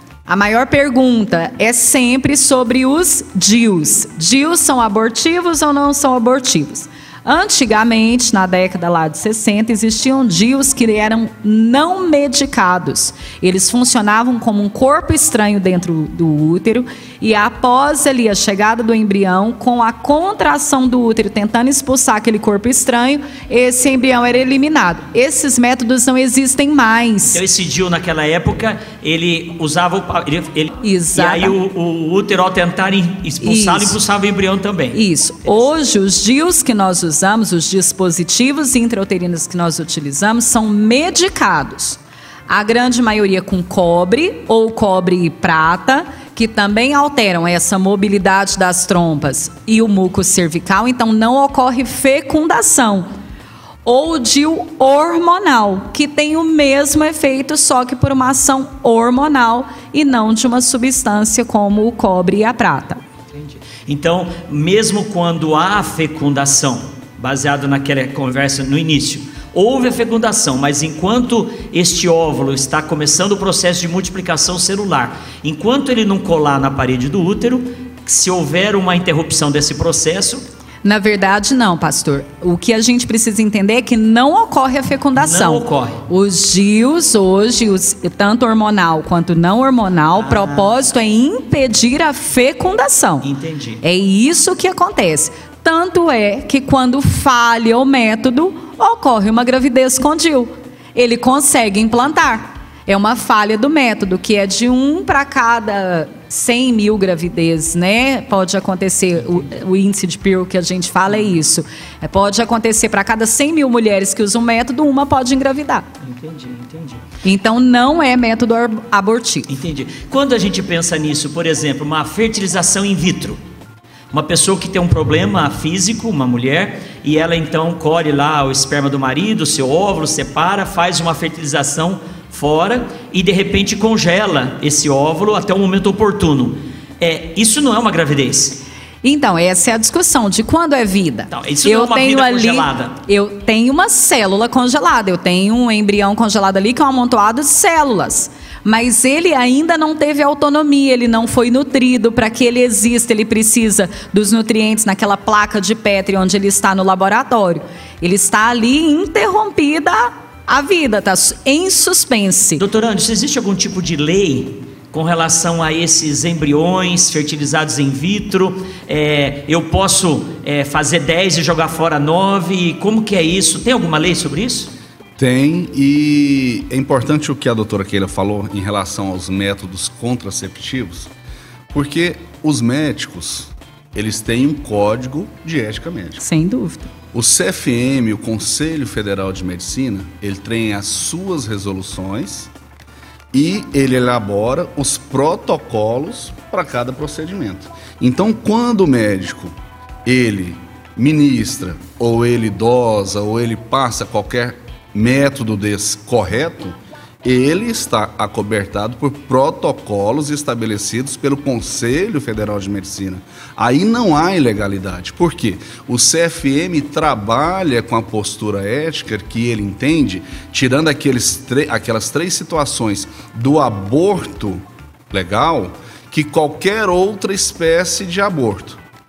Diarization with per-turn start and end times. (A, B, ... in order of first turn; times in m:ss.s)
0:00.3-0:27.4 A
0:27.3-0:35.6 B
0:30.8-0:31.6 A
0:33.4-0:34.0 A
0:34.9-0:53.1 A
0:53.8-1:03.0 A
1:03.3-1:20.4 B
1:20.8-1:33.3 A
1:25.2-1:26.0 B
1:30.1-1:30.8 B
1:33.2-1:33.8 B
1:33.8-1:55.9 A
1:56.0-1:57.0 B
1:57.2-1:59.5 A
1:59.5-2:03.4 B
2:04.1-2:18.6 B
2:19.0-2:42.6 A
2:21.3-2:23.0 B
2:42.6-2:54.7 B
2:55.2-3:01.1 C
3:01.7-3:06.2 C
3:06.2-3:06.9 A
3:07.1-3:12.5 C
3:13.3-3:19.6 C
3:20.1-3:48.8 C